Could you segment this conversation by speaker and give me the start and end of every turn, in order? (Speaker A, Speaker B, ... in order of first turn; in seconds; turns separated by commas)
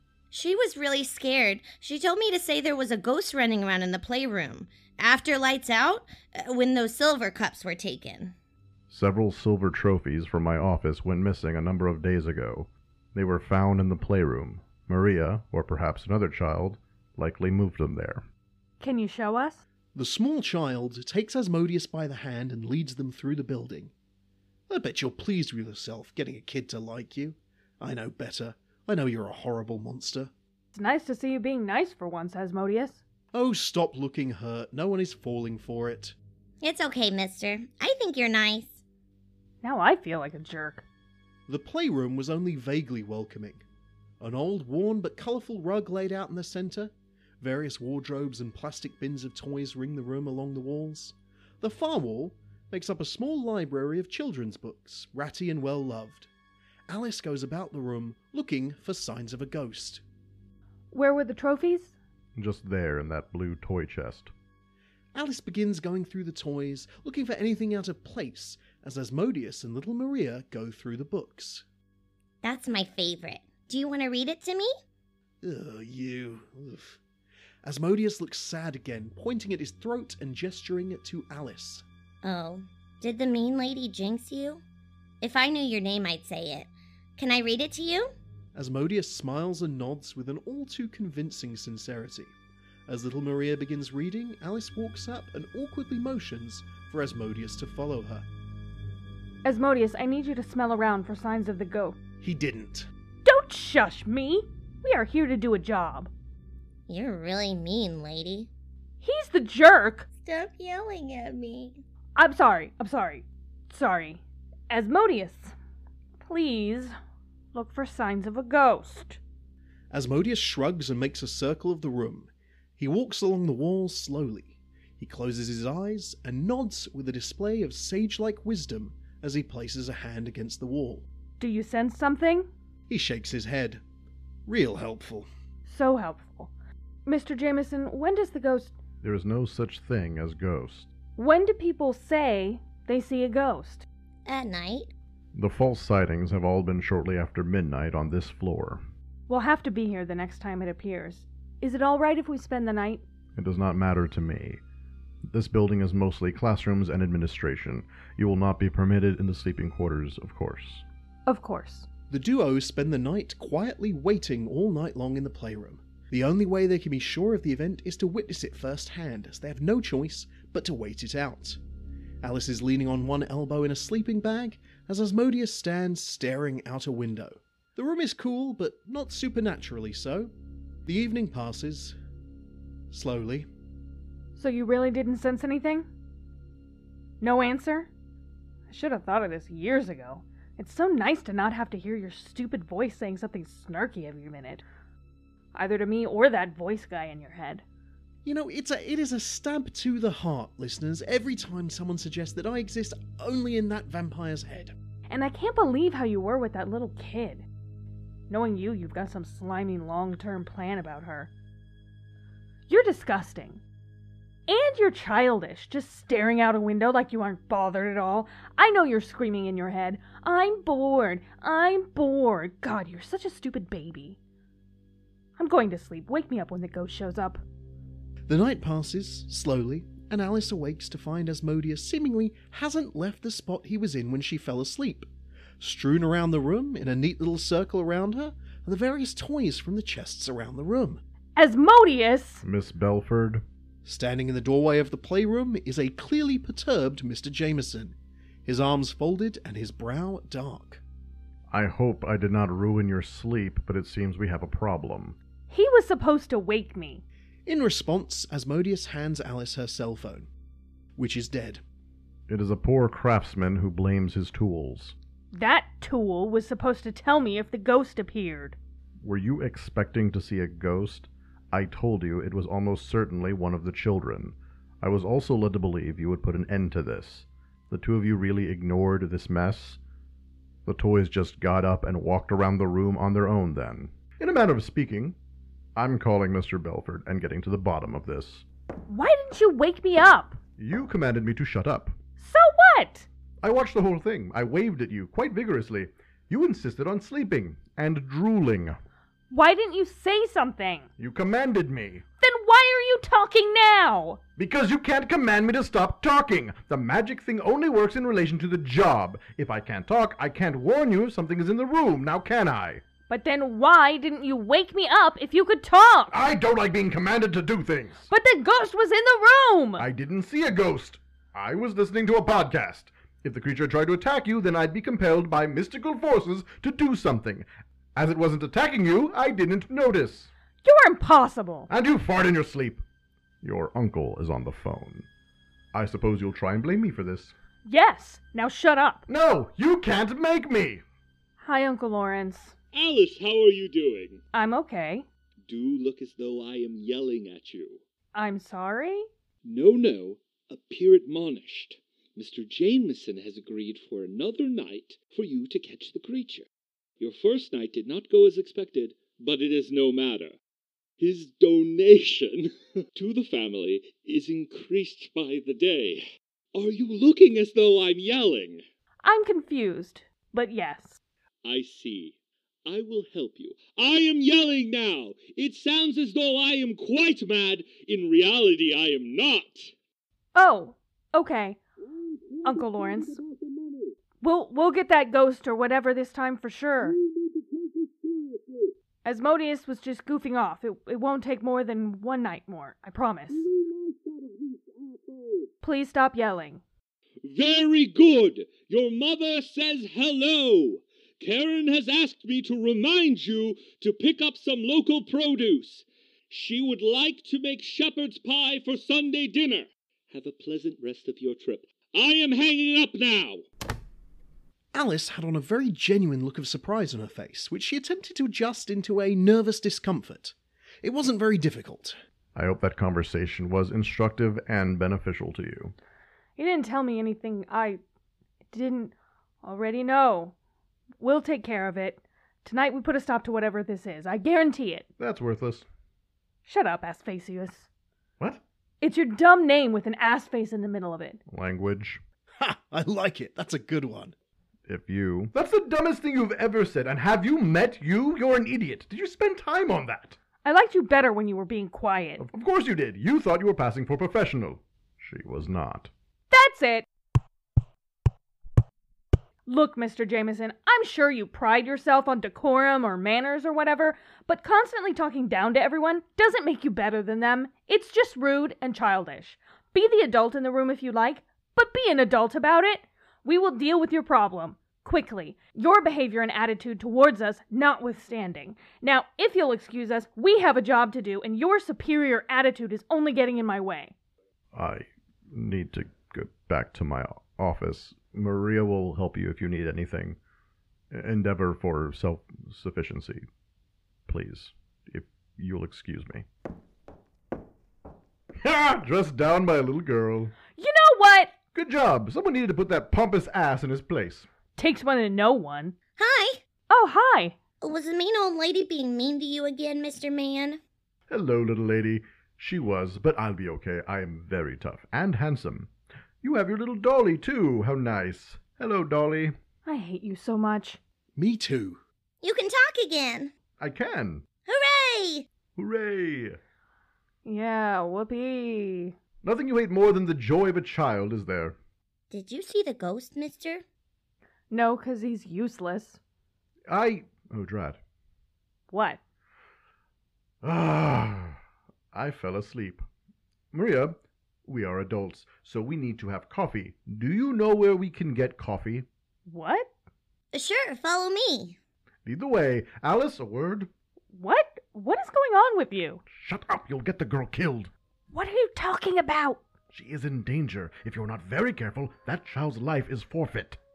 Speaker A: 0.3-8.3, Speaker B: 8.9-18.2, Speaker C: 18.8-19.6, Speaker D: 19.9-23.9, Speaker D: 24.7-30.3, Speaker C: 30.7-33.0, Speaker D: 33.3-36.1, Speaker A: 36.6-38.8, Speaker C: 39.6-40.8, Speaker D: 41.5-43.6, Speaker D: 44.2-56.3, Speaker D: 56.9-60.0, Speaker C: 60.9-61.9, Speaker B: 62.4-64.3, Speaker D: 65.1-71.6, Speaker A: 72.4-74.7, Speaker D: 75.4-77.0, Speaker D: 77.6-81.8, Speaker A: 82.2-84.6, Speaker A: 85.2-88.1, Speaker D: 88.5-92.3, Speaker D: 92.9-98.2, Speaker C: 99.4-102.0, Speaker D: 102.2-102.9, Speaker C: 103.2-106.1, Speaker A: 106.9-108.5, Speaker C: 109.0-110.1, Speaker A: 110.2-111.8, Speaker C: 112.2-115.5, Speaker C: 116.2-116.9, Speaker C: 117.5-119.2, Speaker D: 119.9-131.1, Speaker C: 131.4-132.5, Speaker D: 132.9-133.8, Speaker D: 134.5-135.3, Speaker C: 135.7-136.5, Speaker C: 137.1-138.7, Speaker B: 139.0-140.9, Speaker C: 141.2-143.8, Speaker A: 144.3-144.9, Speaker B: 145.3-148.8, Speaker C: 149.3-153.0, Speaker B: 153.3-154.6, Speaker B: 155.3-160.8, Speaker C: 161.3-161.9, Speaker D: 162.1-171.6, Speaker D: 172.2-180.3, Speaker D: 180.8-182.0, Speaker D: 182.9-183.5, Speaker C: 184.3-185.9, Speaker C: 187.2-187.9, Speaker C: 188.7-194.6, Speaker C: 195.5-197.6, Speaker D: 198.2-204.7, Speaker C: 205.1-207.4, Speaker C: 208.3-211.3, Speaker C: 212.7-213.6, Speaker C: 214.5-224.2, Speaker C: 225.4-227.4, Speaker D: 228.3-235.1, Speaker D: 235.6-241.0, Speaker C: 241.3-242.4, Speaker B: 242.4-243.4, Speaker D: 243.8-250.8, Speaker B: 251.5-255.2, Speaker C: 255.5-257.0, Speaker D: 257.4-260.3, Speaker D: 260.9-261.6, Speaker B: 262.3-264.9, Speaker C: 265.3-268.6, Speaker B: 269.0-279.8, Speaker B: 280.6-285.1, Speaker B: 285.8-288.4, Speaker C: 288.9-290.4, Speaker B: 290.6-291.9, Speaker C: 292.2-293.1, Speaker B: 293.4-298.8, Speaker C: 299.3-300.9, Speaker B: 301.0-302.0, Speaker C: 302.2-304.2, Speaker B: 304.4-312.8, Speaker C: 313.1-316.1, Speaker B: 316.1-318.1, Speaker C: 318.1-319.8, Speaker B: 319.8-330.3, Speaker C: 330.6-331.7, Speaker B: 331.7-332.8, Speaker B: 333.4-335.1, Speaker B: 335.7-337.3, Speaker C: 337.7-339.0, Speaker B: 339.1-340.8, Speaker C: 341.4-342.5, Speaker E: 342.7-344.2, Speaker C: 344.3-345.1, Speaker E: 345.4-347.8, Speaker C: 348.1-349.1, Speaker E: 349.4-356.5, Speaker E: 357.0-360.4, Speaker E: 361.0-368.6, Speaker C: 369.0-371.0, Speaker E: 371.4-372.1, Speaker E: 372.6-379.7, Speaker C: 380.3-381.6, Speaker E: 381.8-383.9, Speaker C: 382.4-383.2, Speaker C: 384.2-386.9, Speaker E: 386.8-388.7, Speaker C: 389.0-393.4, Speaker E: 393.3-395.5, Speaker C: 395.6-396.6, Speaker E: 397.2-413.4, Speaker D: 414.7-422.0, Speaker B: 422.3-425.7, Speaker C: 426.4-427.8, Speaker C: 428.5-430.3, Speaker C: 431.0-434.9, Speaker B: 435.0-435.6, Speaker C: 436.4-437.7, Speaker C: 438.8-441.2, Speaker B: 441.3-442.0, Speaker D: 442.4-444.1, Speaker B: 444.7-450.2, Speaker C: 450.4-452.2, Speaker B: 452.2-455.9, Speaker C: 456.3-456.9, Speaker C: 459.4-483.9, Speaker B: 484.5-490.2, Speaker B: 490.9-493.2, Speaker B: 494.1-496.2, Speaker B: 498.4-500.3, Speaker C: 500.6-501.3, Speaker B: 501.5-504.3, Speaker C: 504.6-505.7, Speaker A: 506.0-506.4, Speaker C: 506.7-507.4, Speaker A: 507.6-510.6, Speaker B: 511.1-515.7, Speaker B: 516.2-519.3, Speaker C: 519.6-520.8, Speaker D: 521.1-521.8, Speaker A: 522.2-523.3, Speaker B: 523.6-524.2, Speaker A: 524.5-525.3, Speaker B: 525.5-526.4, Speaker C: 527.2-529.0, Speaker B: 529.2-531.6, Speaker A: 532.1-533.6, Speaker C: 534.5-536.0, Speaker B: 536.7-537.8, Speaker C: 538.7-539.0, Speaker B: 540.4-541.4, Speaker B: 541.9-542.8, Speaker B: 543.5-548.9, Speaker C: 549.2-549.7, Speaker A: 550.3-551.6, Speaker B: 552.0-553.7, Speaker C: 554.1-556.0, Speaker B: 556.1-557.7, Speaker C: 558.1-559.4, Speaker B: 559.7-563.6